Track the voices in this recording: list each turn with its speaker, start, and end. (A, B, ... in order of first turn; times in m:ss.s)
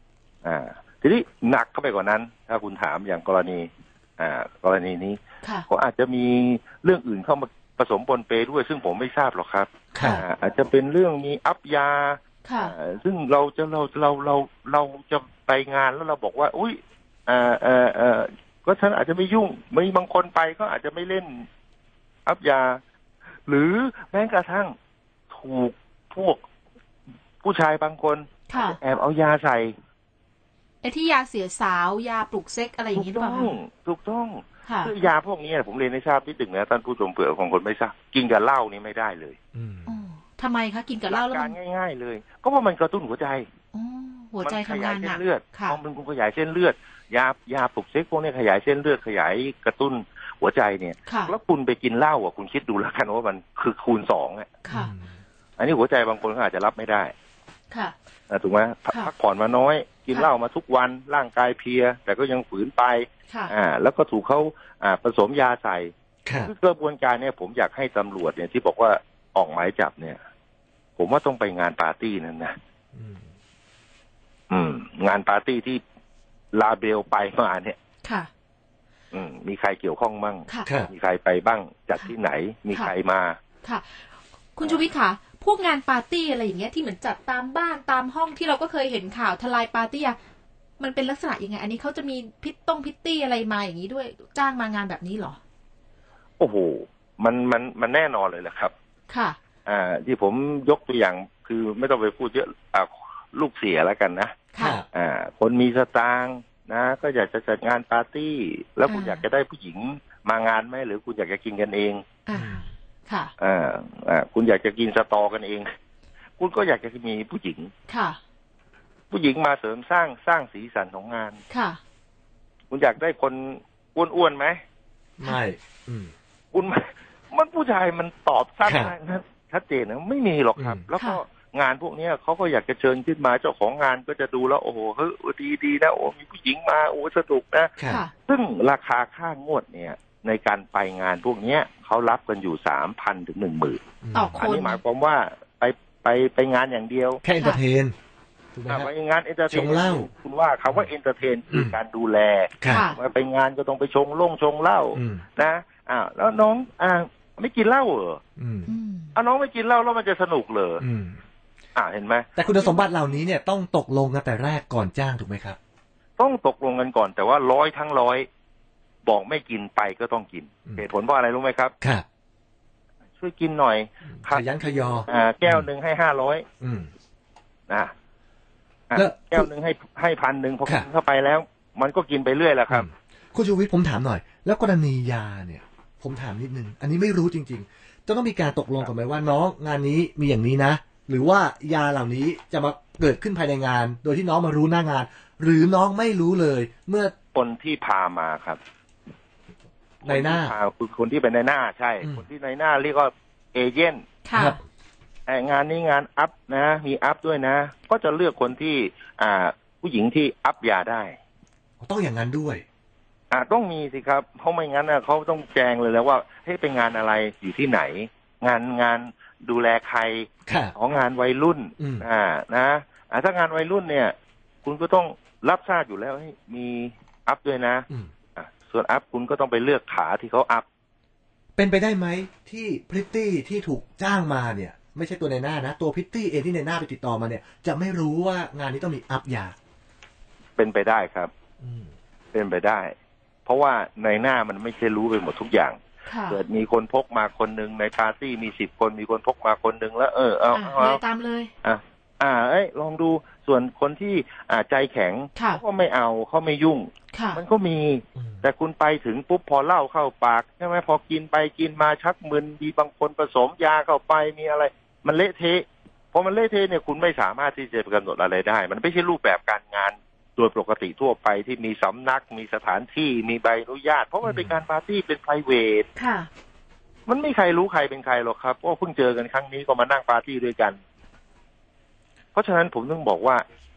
0:00.4-0:21.5 A
0:09.9-0:10.2 B
0:12.4-0:12.7 C
0:22.3-0:22.8 A
0:23.5-0:24.7 A
0:25.3-0:26.4 A
0:27.4-0:29.8 A
0:28.5-0:28.8 C
0:30.8-0:33.6 C
0:33.0-0:39.4 A
0:34.7-0:34.9 C
0:39.5-0:40.0 B
0:39.9-0:41.5 C
0:41.1-0:43.5 A
0:43.7-0:45.8 C
0:44.4-0:54.5 A
0:51.1-0:51.3 C
0:54.7-0:54.9 C
0:54.7-0:55.2 B
0:55.6-0:57.1 A
0:58.3-1:10.2 A
1:03.3-1:03.5 C
1:06.3-1:06.5 B
1:11.0-1:12.6 A
1:12.9-1:13.3 B
1:14.5-1:15.8 A
1:16.5-1:17.8 A
1:18.0-1:18.3 C
1:19.1-1:23.4 A
1:20.6-1:20.9 B
1:23.6-1:30.2 C
1:30.8-1:35.4 C
1:36.4-1:38.7 A
1:39.1-1:39.4 C
1:39.7-1:44.4 A
1:44.6-1:44.9 B
1:44.9-1:52.1 A
1:48.9-1:49.2 C
1:52.3-1:53.3 C
1:52.3-1:52.7 B
1:53.4-1:55.7 A
1:56.4-1:57.7 A
1:57.9-1:58.2 C
1:59.1-2:01.4 A
2:01.5-2:01.8 C
2:02.7-2:04.6 A
2:05.2-2:06.1 B
2:06.5-2:17.7 A
2:08.6-2:08.9 B
2:10.6-2:10.8 B
2:17.8-2:18.0 B
2:17.9-2:18.1 C
2:18.3-2:23.8 A
2:24.0-2:24.4 B
2:24.1-2:24.8 C
2:24.4-2:27.2 A
2:27.2-2:28.0 B
2:28.6-2:28.9 B
2:28.7-2:38.2 A
2:29.5-2:30.1 B
2:31.5-2:31.8 B
2:32.6-2:32.9 B
2:32.7-2:33.0 C
2:35.0-2:35.3 B
2:38.4-2:38.7 B
2:38.7-2:39.1 C
2:39.2-2:40.8 A
2:40.8-2:41.2 B
2:41.8-2:42.3 A
2:42.4-2:45.6 B
2:46.2-2:48.3 A
2:49.0-2:51.8 A
2:51.8-2:52.1 B
2:53.2-2:54.5 A
2:54.1-2:55.7 B
2:55.0-2:56.4 A
2:56.6-2:56.9 B
2:58.9-3:02.9 A
2:58.9-2:59.5 B
3:02.7-3:17.1 B
3:17.3-3:18.6 A
3:20.0-3:20.5 B
3:20.0-3:24.1 A
3:24.3-3:24.6 C
3:24.4-3:24.6 B
3:25.3-3:31.2 A
3:31.8-3:32.6 B
3:33.3-3:50.7 A
3:40.5-3:40.7 B
3:41.8-3:42.1 B
3:51.6-3:59.6 B
4:00.6-4:01.3 A
4:01.6-4:01.9 B
4:02.3-4:02.9 A
4:03.5-4:11.0 A
4:06.1-4:06.4 C
4:10.5-4:11.5 C
4:11.6-4:35.9 A
4:15.4-4:15.6 C
4:17.1-4:17.4 C
4:18.2-4:18.4 B
4:34.2-4:34.6 B
4:36.0-4:36.3 C
4:37.1-4:40.8 A
4:42.3-4:43.4 A